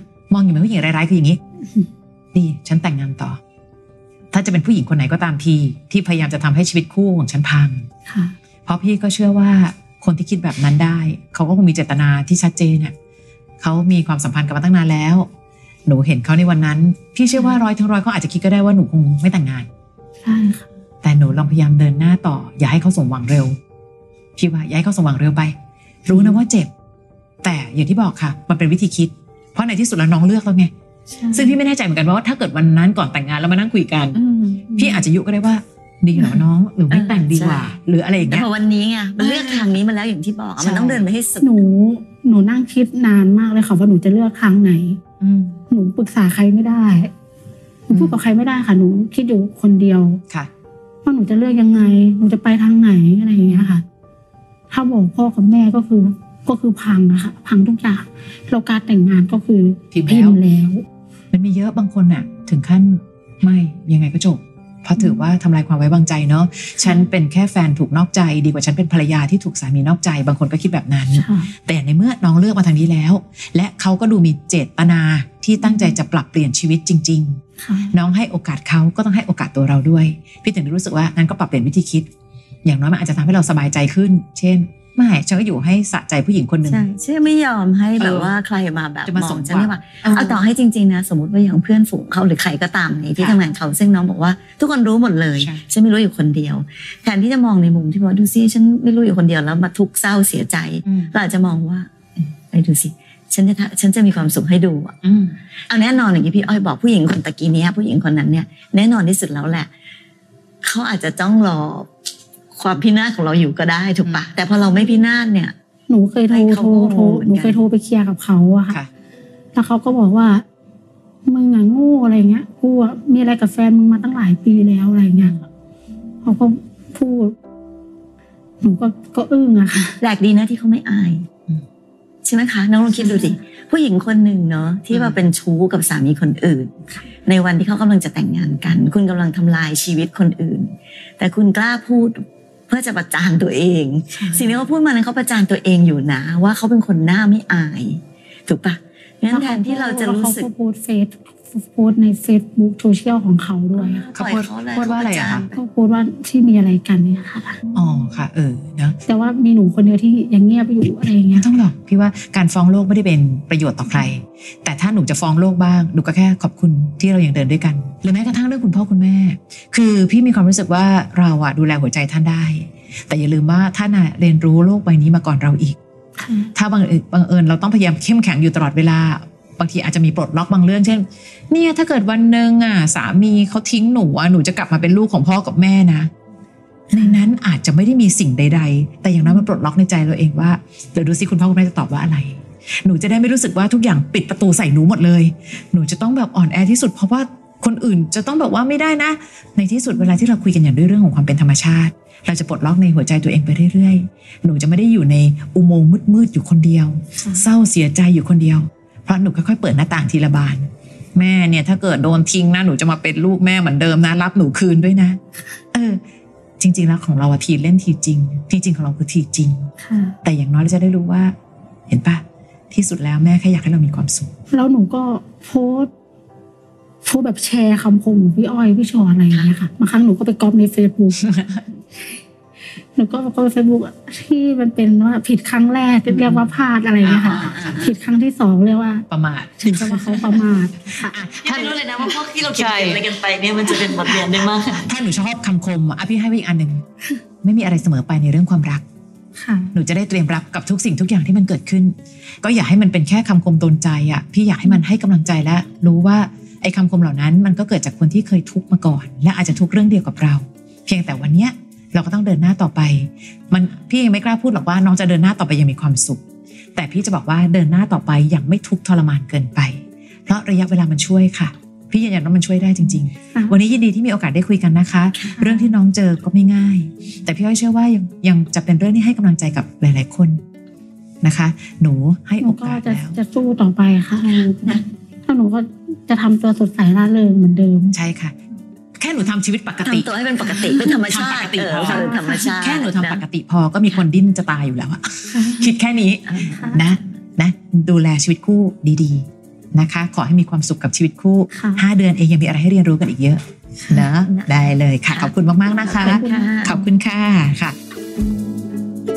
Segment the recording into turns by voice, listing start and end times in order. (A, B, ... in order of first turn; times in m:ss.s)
0:00.3-0:01.4 A
0:02.3-0:03.4 A
0:04.3-0:07.9 A
0:08.1-0:08.3 B
0:08.6-0:12.9 A
0:13.6-0:15.3 A
0:15.8-0:19.7 A
0:20.2-0:20.7 B
0:21.0-0:23.6 A
0:24.4-0:25.5 A
0:26.0-0:26.7 A
0:27.4-0:30.7 A
0:31.1-0:31.6 B
0:31.3-0:34.2 A
0:34.1-0:34.7 C
0:34.7-0:35.0 B
0:34.7-0:38.5 A
0:36.1-0:36.4 B
0:36.9-0:41.6 C
0:39.2-0:39.7 A
0:40.6-0:41.0 A
0:41.4-0:45.0 B
0:45.2-0:45.6 A
0:45.7-0:47.1 B
0:47.9-0:50.2 B
0:47.9-0:48.2 A
0:51.0-0:53.8 B
0:53.4-0:53.7 A
0:54.7-1:00.8 B
0:59.9-1:00.4 A
1:01.3-1:17.4 A
1:05.0-1:05.2 B
1:11.1-1:11.5 B
1:15.6-1:16.0 B
1:17.6-1:17.9 B
1:17.9-1:22.1 A
1:22.6-1:26.8 A
1:26.6-1:41.9 C
1:28.0-1:28.3 A
1:29.0-1:30.4 A
1:35.4-1:35.6 A
1:40.8-1:41.1 A
1:42.5-1:44.9 C
1:45.0-1:45.4 A
1:45.7-1:49.7 C
1:50.6-1:51.9 C
1:52.5-1:55.5 C
1:54.7-1:55.0 B
1:55.9-1:58.8 B
1:56.3-1:57.6 C
1:59.5-2:00.4 B
2:01.2-2:05.4 B
2:06.2-2:07.3 B
2:08.6-2:10.0 B
2:10.0-2:11.2 C
2:12.2-2:16.7 C
2:12.9-2:13.4 B
2:14.9-2:15.2 A
2:17.2-2:30.5 C
2:24.1-2:24.5 B
2:29.3-2:34.0 B
2:33.7-2:35.6 C
2:34.1-2:35.4 A
2:35.5-2:37.6 B
2:37.7-2:39.0 A
2:39.0-2:41.5 B
2:41.3-2:55.8 A
2:56.2-2:56.5 B
2:56.5-3:06.1 A
3:06.9-3:35.2 A
3:27.2-3:27.5 B
3:35.7-3:36.0 A
3:36.6-3:39.7 A
3:39.8-3:40.2 B
3:40.2-3:41.3 A
3:41.9-3:44.3 A
3:44.5-3:45.9 B
3:47.0-3:51.3 B
3:51.2-3:51.6 A
3:53.0-3:59.0 B
3:56.1-3:56.4 A
3:57.0-3:57.8 A
3:57.3-3:57.9 C
3:59.1-4:00.5 A
3:59.6-4:01.2 B
4:01.0-4:01.8 A
4:01.4-4:04.9 C
4:02.5-4:03.0 A
4:04.7-4:06.8 A
4:07.4-4:08.8 A
4:09.4-4:09.7 B
4:09.7-4:26.2 A
4:26.7-4:40.4 A
4:35.1-4:35.4 C
4:35.4-4:35.7 B
4:41.2-4:43.2 A
4:42.4-4:48.0 B
4:44.5-4:44.8 C
4:47.9-4:48.3 A
4:49.0-5:07.8 A
4:49.8-4:53.2 C
4:51.9-4:52.5 B
4:55.3-4:55.8 B
4:56.3-4:56.8 C
4:56.4-4:56.8 B
5:01.5-5:01.8 B
5:03.9-5:06.8 C
5:06.0-5:06.8 B